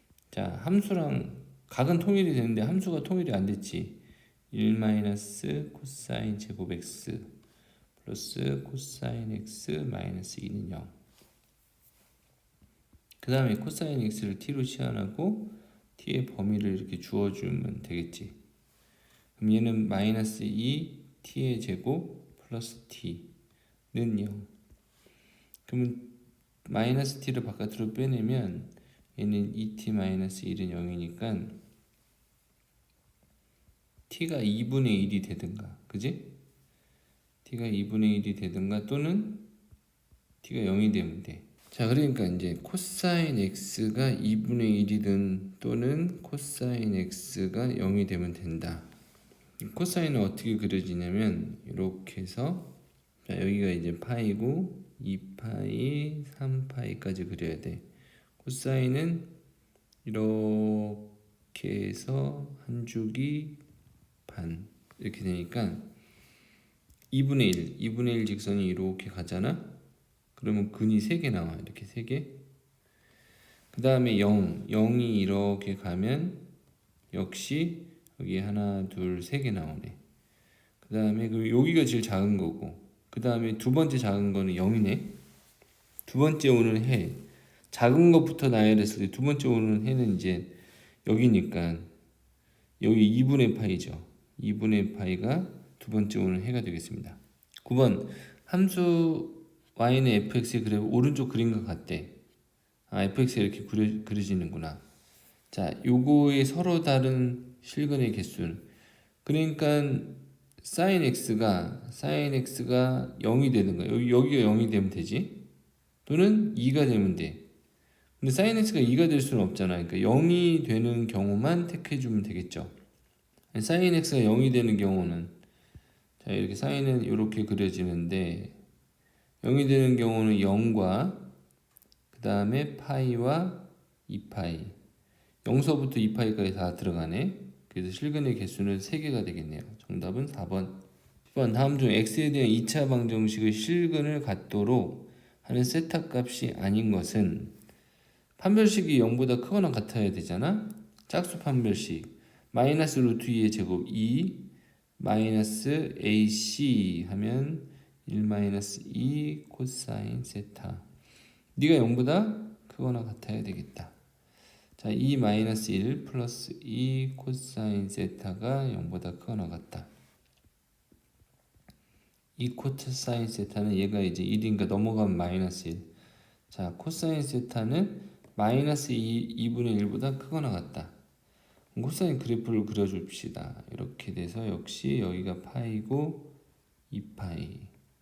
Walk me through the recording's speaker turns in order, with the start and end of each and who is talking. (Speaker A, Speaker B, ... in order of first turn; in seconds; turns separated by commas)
Speaker A: 0.3-7.3, Speaker A: 8.0-10.9, Speaker A: 13.2-18.4, Speaker A: 19.4-23.3, Speaker A: 23.9-24.5, Speaker A: 25.7-26.1, Speaker A: 26.6-31.6, Speaker A: 34.1-36.3, Speaker A: 37.4-39.5, Speaker A: 40.4-48.9, Speaker A: 49.6-52.7, Speaker A: 53.2-57.9, Speaker A: 58.4-59.3, Speaker A: 60.0-63.6, Speaker A: 64.3-65.9, Speaker A: 67.1-69.7, Speaker A: 70.3-72.4, Speaker A: 73.7-76.5, Speaker A: 77.1-80.0, Speaker A: 80.8-85.2, Speaker A: 86.0-91.9, Speaker A: 92.8-102.2, Speaker A: 102.9-104.8, Speaker A: 105.5-108.7, Speaker A: 109.2-115.4, Speaker A: 116.0-117.4, Speaker A: 118.2-122.7, Speaker A: 123.5-125.3, Speaker A: 126.2-128.6, Speaker A: 129.4-131.3, Speaker A: 132.1-134.7, Speaker A: 135.4-147.5, Speaker A: 148.4-160.9, Speaker A: 161.6-163.9, Speaker A: 164.8-169.9, Speaker A: 172.4-175.9, Speaker A: 176.5-180.9, Speaker A: 181.7-186.3, Speaker A: 186.9-187.7